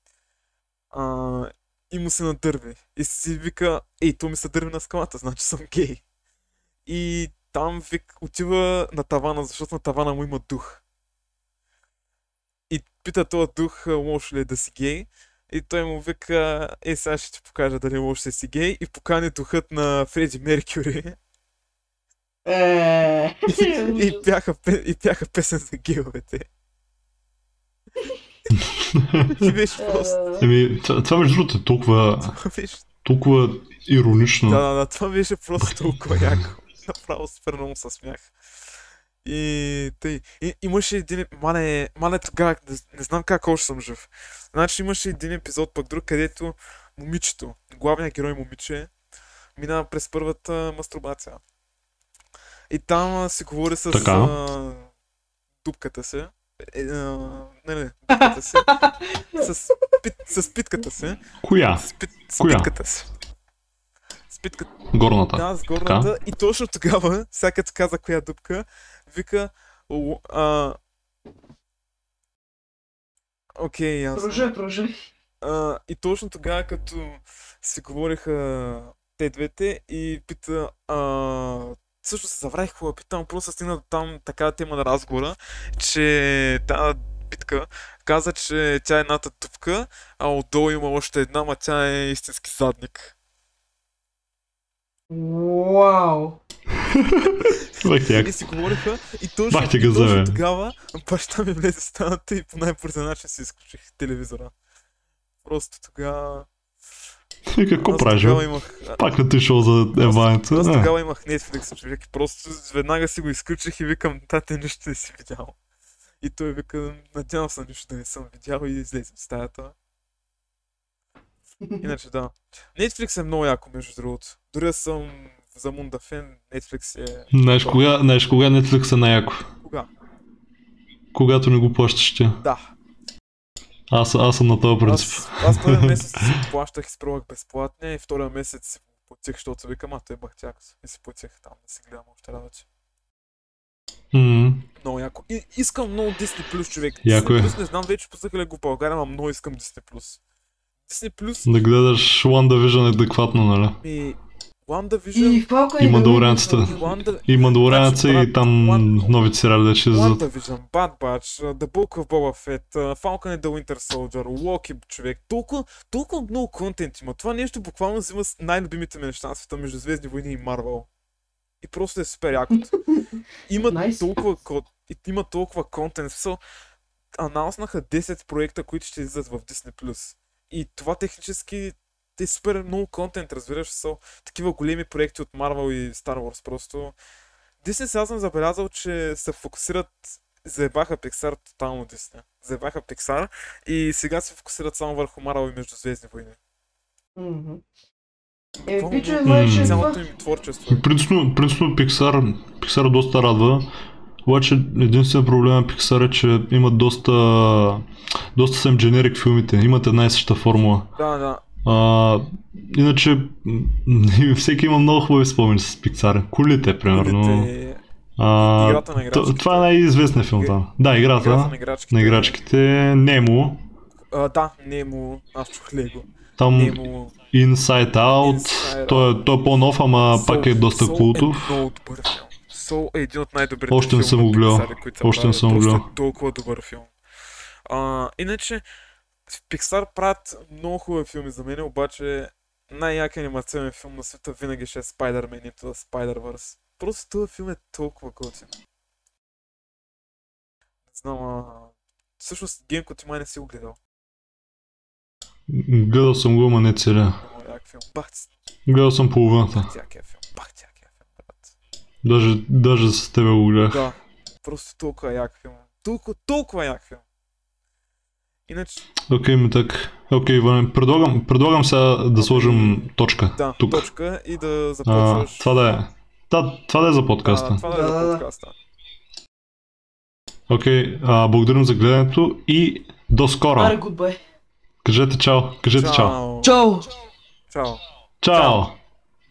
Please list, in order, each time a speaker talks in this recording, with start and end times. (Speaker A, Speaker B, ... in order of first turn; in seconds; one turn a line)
Speaker A: 0.9-6.0
Speaker A: 6.8-10.8
Speaker A: 12.7-21.2
Speaker B: 22.4-24.2
Speaker A: 23.5-26.5
Speaker C: 28.6-29.5
Speaker A: 29.2-30.2
Speaker B: 29.8-30.5
Speaker C: 30.4-32.4
Speaker A: 32.3-32.8
Speaker C: 33.0-34.6
Speaker A: 34.4-38.3
Speaker A: 39.2-48.9
Speaker A: 49.5-51.4
Speaker A: 52.7-54.9
Speaker C: 53.9-54.3
Speaker A: 55.6-58.8
Speaker B: 58.1-59.4
Speaker A: 59.3-61.2
Speaker C: 61.4-61.8
Speaker A: 61.8-63.1
Speaker C: 62.4-62.7
Speaker A: 64.3-64.7
Speaker C: 64.9-66.1
Speaker A: 65.3-70.8
Speaker A: 73.6-74.5
Speaker B: 74.1-75.0
Speaker A: 75.4-93.1
Speaker B: 95.1-96.4
Speaker C: 96.8-98.4
Speaker A: 97.5-104.5
Speaker C: 99.5-100.4
Speaker A: 105.4-106.5
Speaker C: 107.5-108.4
Speaker A: 107.8-109.0
Speaker C: 109.0-110.9
Speaker A: 110.0-115.5
Speaker A: 116.2-119.7
Speaker A: 121.8-127.8
Speaker C: 127.3-129.5
Speaker A: 129.6-129.9
Speaker C: 131.1-132.4
Speaker A: 132.4-132.7
Speaker C: 133.9-136.4
Speaker A: 134.8-142.7
Speaker C: 144.1-144.7
Speaker A: 144.8-150.2
Speaker C: 147.0-147.5
Speaker A: 150.9-151.5
Speaker C: 151.4-153.8
Speaker A: 153.8-155.4
Speaker B: 155.1-156.9
Speaker C: 155.8-160.2
Speaker A: 156.6-159.1
Speaker A: 159.9-170.9
Speaker A: 171.6-172.7
Speaker A: 173.5-176.4
Speaker B: 173.7-174.1
Speaker A: 177.1-186.9
Speaker A: 187.6-196.4
Speaker B: 197.2-197.6
Speaker A: 198.6-200.8
Speaker B: 198.7-200.0
Speaker C: 199.2-199.9
Speaker C: 200.7-203.7
Speaker C: 204.2-210.9
Speaker A: 211.0-211.4
Speaker C: 211.6-217.5
Speaker A: 216.9-217.8
Speaker C: 218.2-223.6
Speaker A: 218.4-219.7
Speaker A: 220.2-220.5
Speaker A: 221.2-222.4
Speaker A: 224.1-227.1
Speaker C: 226.4-231.6
Speaker A: 228.2-236.9
Speaker C: 233.7-235.8
Speaker A: 237.7-238.6
Speaker A: 239.3-248.5
Speaker A: 250.9-253.8
Speaker C: 255.5-257.2
Speaker A: 257.2-258.3
Speaker C: 258.7-259.7
Speaker A: 259.5-261.5
Speaker C: 262.0-263.9
Speaker A: 263.7-267.0
Speaker A: 268.5-268.8
Speaker C: 269.1-273.9
Speaker A: 272.2-275.5
Speaker C: 274.9-277.6
Speaker A: 277.2-278.5
Speaker B: 277.6-278.2
Speaker C: 280.5-283.8
Speaker B: 283.6-284.2
Speaker C: 284.8-286.2
Speaker A: 285.7-286.6
Speaker B: 286.4-286.9
Speaker A: 287.5-288.6
Speaker C: 288.2-288.8